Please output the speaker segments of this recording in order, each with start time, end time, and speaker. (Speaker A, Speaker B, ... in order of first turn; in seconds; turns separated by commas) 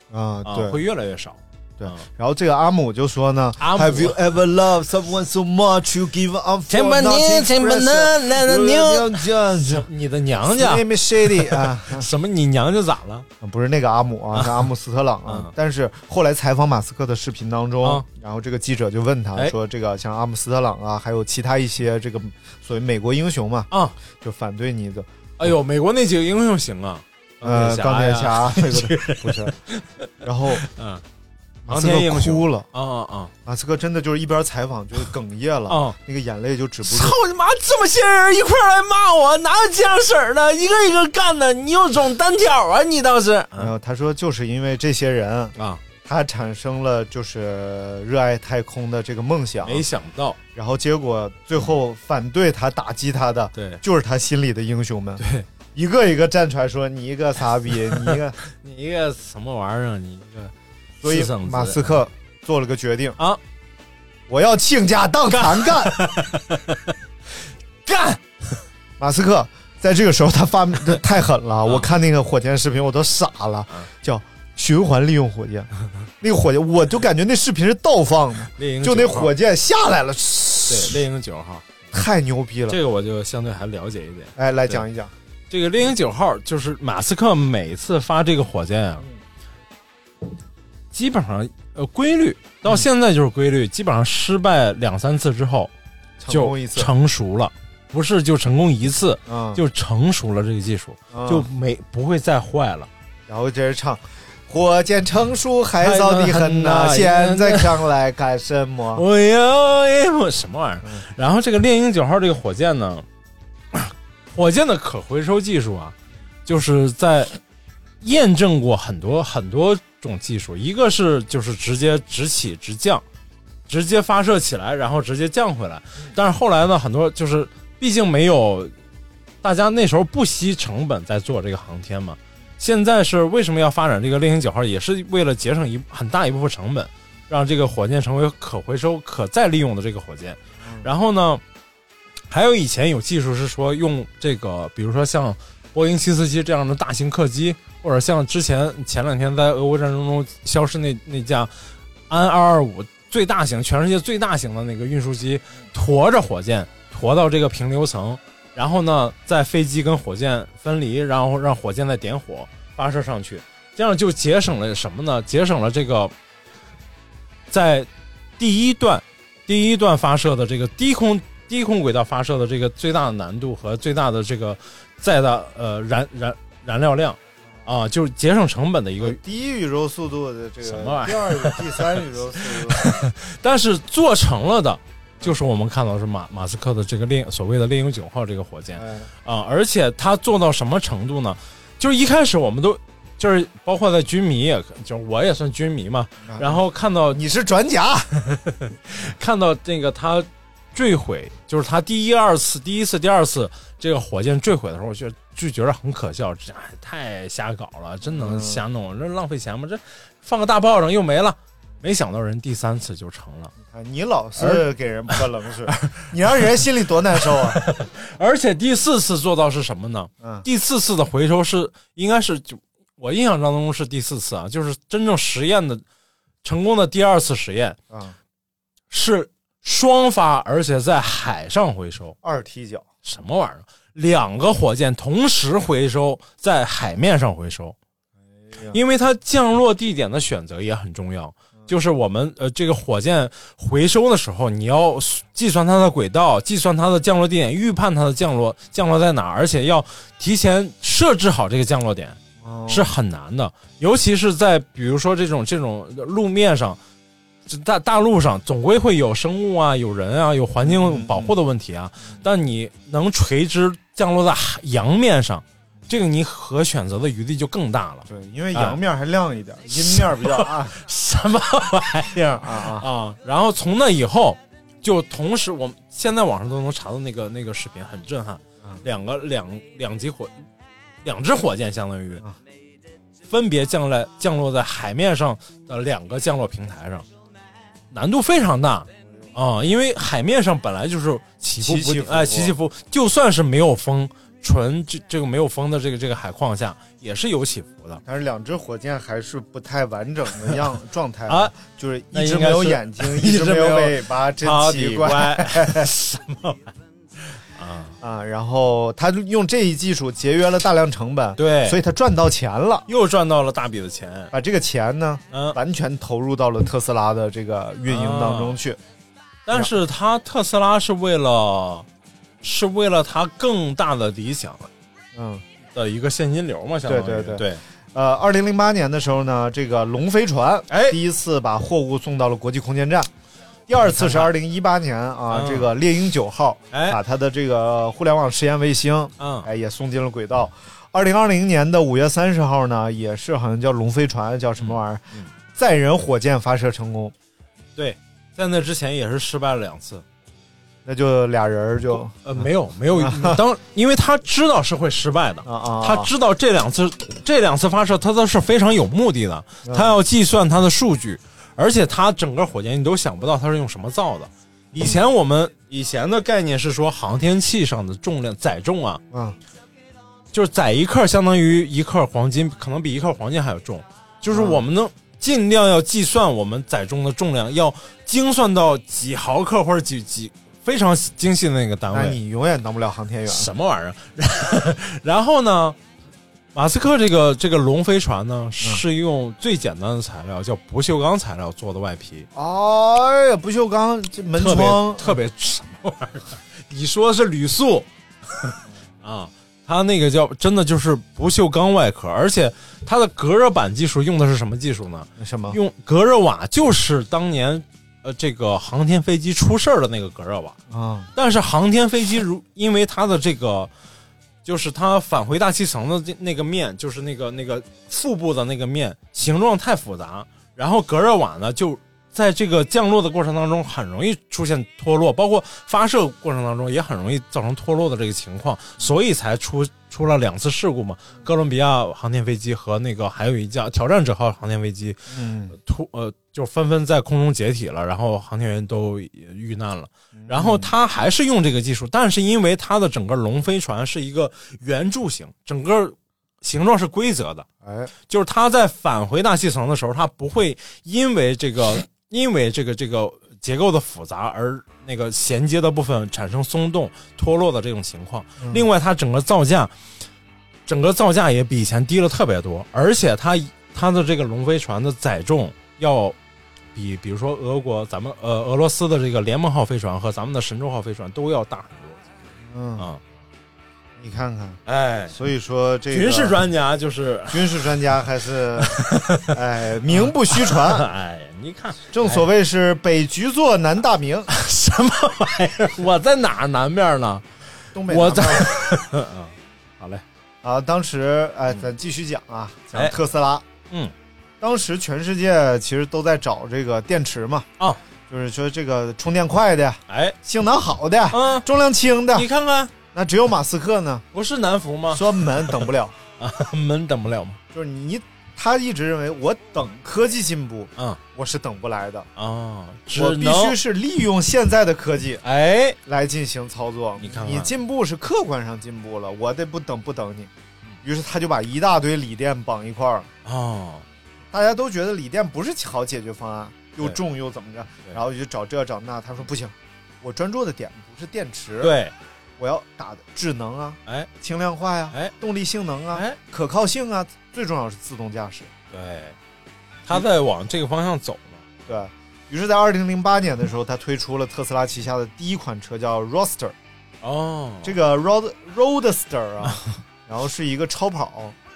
Speaker A: 0.1-0.8, Speaker B: 0.4-2.0, Speaker A: 1.8-9.9, Speaker B: 3.6-4.2, Speaker B: 6.7-13.3, Speaker A: 10.4-12.1, Speaker A: 13.4-25.5, Speaker B: 14.3-14.7, Speaker B: 15.3-15.5, Speaker B: 23.7-24.0, Speaker B: 25.4-31.0, Speaker A: 27.4-29.5, Speaker A: 30.2-30.6, Speaker A: 31.6-32.6, Speaker B: 31.7-33.3, Speaker A: 33.5-37.2, Speaker B: 35.7-36.0, Speaker B: 36.8-43.7, Speaker A: 43.6-49.9, Speaker B: 45.5-45.8, Speaker B: 49.6-50.4, Speaker A: 50.5-58.4, Speaker B: 53.5-53.8, Speaker B: 55.2-55.5, Speaker B: 57.9-60.5, Speaker A: 61.0-63.2, Speaker B: 61.0-62.0, Speaker A: 64.3-65.9, Speaker B: 65.3-66.9, Speaker B: 67.8-68.6, Speaker A: 69.0-81.0, Speaker B: 78.5-79.3, Speaker B: 80.7-81.8, Speaker A: 81.9-82.8, Speaker B: 82.7-84.8, Speaker A: 84.3-85.1, Speaker B: 85.5-89.1, Speaker B: 90.9-95.7, Speaker A: 96.2-96.9, Speaker B: 96.3-102.9, Speaker A: 99.3-99.6, Speaker A: 101.1-101.5, Speaker A: 103.3-109.0, Speaker B: 105.8-107.8, Speaker B: 108.9-113.0, Speaker B: 113.7-115.9, Speaker B: 116.5-117.4, Speaker B: 118.0-123.0, Speaker B: 123.7-128.7, Speaker B: 129.4-141.4, Speaker A: 140.6-140.9, Speaker B: 142.3-151.5, Speaker B: 152.1-166.1, Speaker B: 167.5-167.9, Speaker B: 168.4-179.2, Speaker A: 179.0-182.8, Speaker B: 180.6-197.2, Speaker A: 188.8-189.1, Speaker A: 196.2-198.1, Speaker B: 198.2-213.5, Speaker A: 208.0-208.6, Speaker A: 213.6-217.6, Speaker B: 214.4-216.1, Speaker B: 217.4-225.8, Speaker A: 220.2-220.4, Speaker B: 226.4-227.8, Speaker A: 227.9-228.2, Speaker B: 228.9-232.2, Speaker A: 232.2-232.8, Speaker B: 233.0-237.8, Speaker A: 238.5-238.8, Speaker B: 238.7-256.8, Speaker A: 252.4-252.9, Speaker B: 257.4-268.8, Speaker A: 260.6-261.3, Speaker A: 268.1-270.8, Speaker B: 269.8-280.3, Speaker A: 272.4-272.9, Speaker B: 281.0-282.2, Speaker B: 283.3-287.1, Speaker B: 287.9-298.0, Speaker A: 291.6-292.5, Speaker A: 298.0-305.9, Speaker B: 301.3-301.5, Speaker B: 302.1-306.7, Speaker B: 307.3-307.9, Speaker A: 308.0-312.9, Speaker B: 311.4-311.8, Speaker B: 312.9-314.3, Speaker A: 314.3-318.8, Speaker B: 315.3-315.6, Speaker B: 317.9-318.6, Speaker B: 319.4-321.9, Speaker B: 322.4-324.7, Speaker A: 325.1-325.4, Speaker B: 325.7-327.6, Speaker A: 326.9-333.1, Speaker B: 330.7-331.0, Speaker A: 333.7-345.0, Speaker B: 333.9-334.3, Speaker B: 335.3-335.7, Speaker B: 336.7-337.0, Speaker B: 339.2-339.5, Speaker B: 344.6-345.3, Speaker A: 345.5-347.1, Speaker B: 347.8-350.0, Speaker A: 350.8-353.4, Speaker B: 352.2-369.0, Speaker A: 355.4-356.1, Speaker A: 359.6-359.9, Speaker A: 369.1-369.4, Speaker B: 370.3-382.2, Speaker A: 374.3-374.6, Speaker A: 381.9-383.5, Speaker B: 383.3-385.8, Speaker B: 386.5-392.3, Speaker A: 392.3-395.1, Speaker B: 394.4-410.6, Speaker A: 405.2-405.6, Speaker A: 410.7-411.1, Speaker B: 411.1-413.7, Speaker B: 414.4-447.5, Speaker A: 435.1-435.5, Speaker A: 440.2-440.7, Speaker A: 447.6-447.9, Speaker B: 448.1-459.7, Speaker A: 458.4-458.7, Speaker B: 460.7-466.1, Speaker B: 466.7-472.1, Speaker A: 472.4-472.9, Speaker A: 474.0-476.4, Speaker B: 474.6-475.1, Speaker B: 475.9-477.8, Speaker A: 477.3-480.9, Speaker B: 478.6-479.3, Speaker B: 479.9-482.2, Speaker A: 481.9-484.3, Speaker B: 484.3-487.2, Speaker A: 487.7-488.8, Speaker B: 487.9-490.0, Speaker A: 490.4-493.4, Speaker A: 494.4-497.5, Speaker A: 498.1-502.3, Speaker B: 499.9-500.1, Speaker B: 501.1-501.4, Speaker B: 502.1-502.7, Speaker A: 502.9-504.1, Speaker B: 504.1-505.6, Speaker A: 504.9-505.9, Speaker B: 506.2-507.4, Speaker A: 507.5-512.1, Speaker B: 512.1-513.6, Speaker A: 512.9-515.2, Speaker B: 515.2-515.8, Speaker A: 515.9-520.3, Speaker B: 517.0-517.5, Speaker A: 520.8-523.1, Speaker B: 523.2-523.8, Speaker A: 524.3-531.8, Speaker B: 531.6-531.9, Speaker A: 532.4-538.5, Speaker B: 535.9-536.2, Speaker B: 538.7-539.1, Speaker B: 539.9-541.5, Speaker A: 541.7-546.5, Speaker B: 547.0-547.8, Speaker A: 547.6-551.4, Speaker B: 549.5-549.7